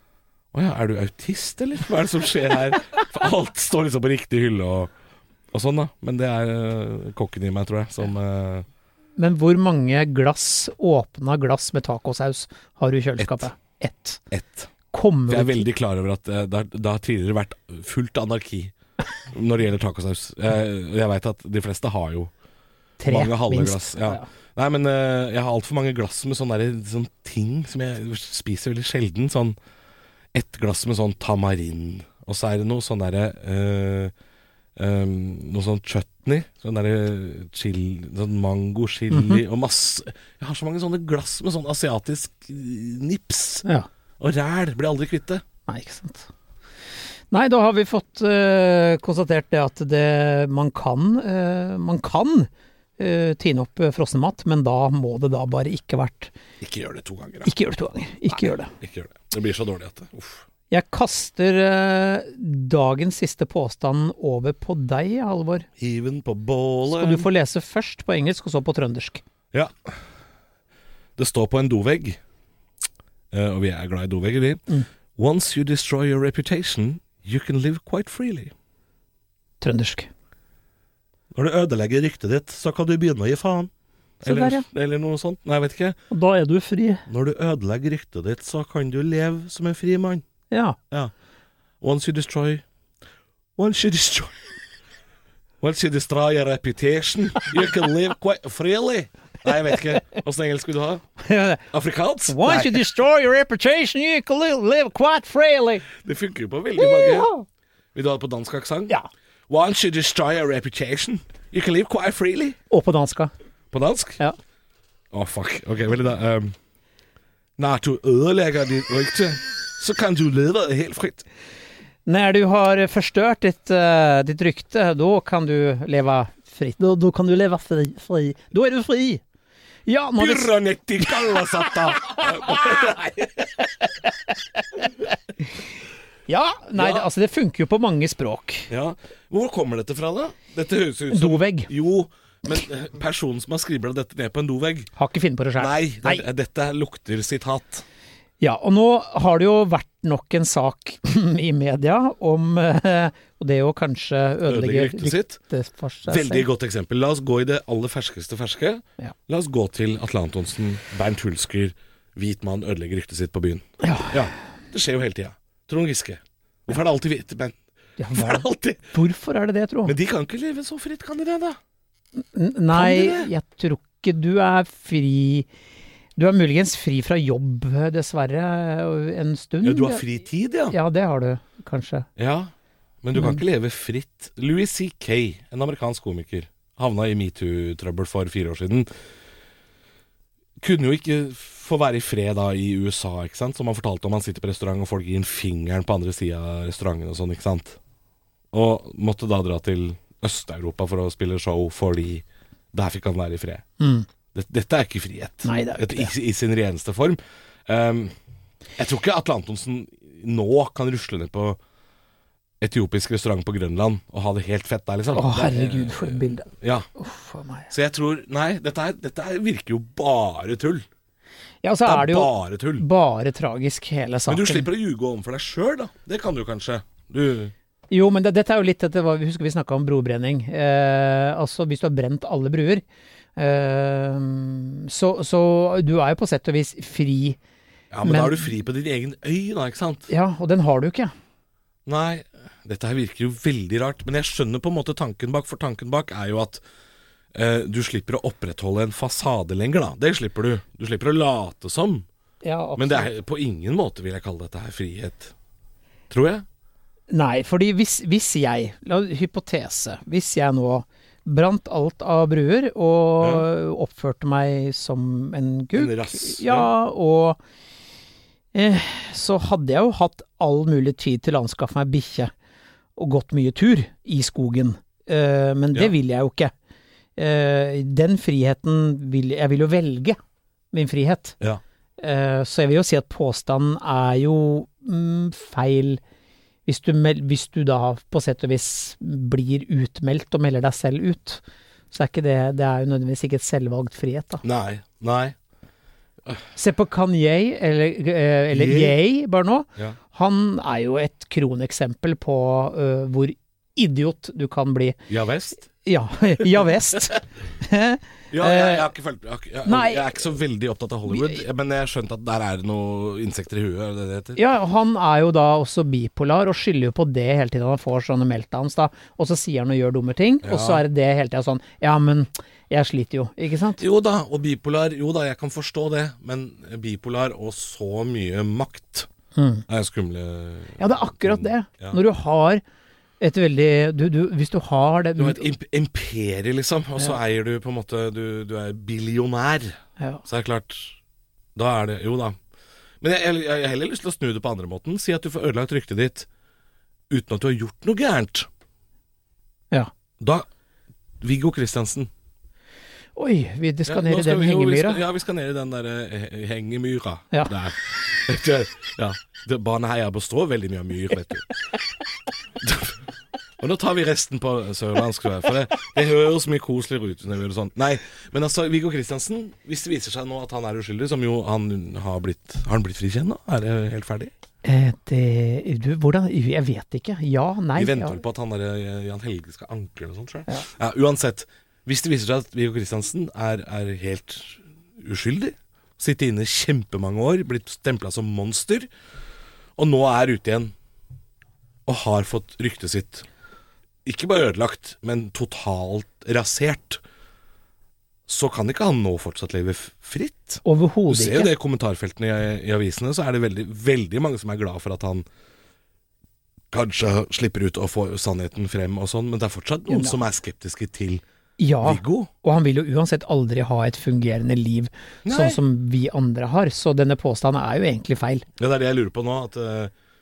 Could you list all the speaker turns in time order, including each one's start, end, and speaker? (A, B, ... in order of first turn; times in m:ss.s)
0:00.5-0:04.9 A
0:05.5-0:08.7 A
0:09.2-0:14.2 B
0:13.2-0:13.5 A
0:14.3-0:14.7 A
0:14.9-0:15.7 B
0:15.3-0:18.7 A
0:19.3-0:22.3 A
0:23.0-0:24.3 B
0:23.1-0:29.6 A
0:30.3-0:34.1 A
0:34.8-0:43.6 A
0:39.1-0:39.4 B
0:44.2-0:45.4 A
0:45.7-0:46.3 B
0:47.3-0:56.3 B
0:56.6-0:57.5 A
0:57.4-0:58.7 B
0:58.3-1:00.4 A
1:00.7-1:05.7 B
1:05.8-1:07.3 A
1:06.9-1:09.2 B
1:09.5-1:10.0 A
1:11.2-1:12.2 A
1:13.3-1:14.6 A
1:15.2-1:18.5 A
1:19.6-1:20.1 B
1:21.3-1:26.0 A
1:24.2-1:24.7 B
1:26.1-1:27.0 B
1:27.1-1:30.2 A
1:30.5-1:30.8 B
1:31.8-1:32.6 A
1:33.6-1:34.4 A
1:35.6-1:41.0 A
1:41.2-1:41.6 B
1:41.7-1:42.8 A
1:42.3-1:45.8 B
1:46.0-1:47.3 A
1:46.8-1:47.4 B
1:47.9-1:48.9 A
1:49.5-1:52.6 A
1:52.7-1:53.3 B
1:53.7-1:54.2 A
1:55.1-1:56.6 A
1:57.6-2:01.3 A
2:02.1-2:09.2 B
2:09.9-2:10.5 B
2:10.2-2:13.7 A
2:11.0-2:12.8 B
2:16.3-2:18.7 B
2:16.8-2:17.1 A
2:18.7-2:24.9 A
2:21.1-2:21.7 B
2:25.0-2:26.2 B
2:25.6-2:27.8 A
2:28.4-2:36.5 B
2:34.5-2:35.4 A
2:36.1-2:47.6 A
2:43.8-2:44.3 B
2:48.0-2:49.9 B
2:48.1-2:49.0 A
2:49.8-2:51.6 A
2:52.3-2:55.5 B
2:52.7-2:53.3 A
2:56.2-3:00.0 B
2:59.6-3:00.8 A
3:00.7-3:02.1 B
3:02.2-3:08.9 A
3:03.2-3:03.4 B
3:10.6-3:17.8 A
3:18.5-3:23.6 A
3:23.8-3:24.1 B
3:24.3-3:28.1 A
3:25.4-3:26.1 B
3:28.8-3:31.6 A
3:32.6-3:36.9 A
3:35.1-3:37.7 B
3:37.7-3:40.9 A
3:41.6-3:44.7 B
3:41.8-3:42.8 A
3:44.3-3:47.5 A
3:47.9-3:52.8 B
3:53.4-3:57.4 B
3:57.9-4:00.1 A
3:58.0-3:58.5 B
4:00.1-4:01.1 B
4:01.9-4:06.6 A
4:07.3-4:12.1 A
4:12.4-4:13.1 B
4:12.8-4:15.3 A
4:16.1-4:16.4 A
4:17.1-4:27.4 B
4:23.2-4:23.5 A
4:25.7-4:26.7 A
4:28.5-4:32.3 B
4:33.0-4:36.5 B
4:37.2-4:40.2 B
4:40.7-4:41.4 B
4:42.0-4:46.0 B
4:46.7-4:54.4 B
4:54.4-4:55.4 A
4:56.6-5:05.0 B
4:58.5-4:59.0 A
5:05.1-5:05.6 A
5:05.8-5:08.9 B
5:08.3-5:14.4 A
5:09.6-5:10.1 B
5:11.1-5:11.4 B
5:14.4-5:23.8 B
5:20.4-5:20.8 A
5:23.8-5:29.1 A
5:29.4-5:29.6 B
5:29.7-5:32.0 A
5:30.8-5:32.6 B
5:33.2-5:35.4 B
5:35.2-5:41.0 A
5:41.6-5:42.4 A
5:43.0-5:46.3 A
5:47.1-5:48.5 A
5:50.2-5:50.5 A
5:51.2-5:52.1 A
5:53.2-5:55.0 B
5:53.9-6:01.5 A
6:02.6-6:03.0 A
6:03.6-6:14.3 A
6:14.6-6:18.2 B
6:17.8-6:28.9 A
6:29.8-6:30.7 A
6:31.9-6:33.3 A
6:34.0-6:37.0 A
6:38.3-6:45.3 A
6:40.6-6:41.5 B
6:46.7-6:51.2 A
6:49.9-6:50.2 B
6:51.6-6:58.5 B
6:51.8-6:52.3 A
6:55.2-6:55.6 A
6:58.6-6:59.9 A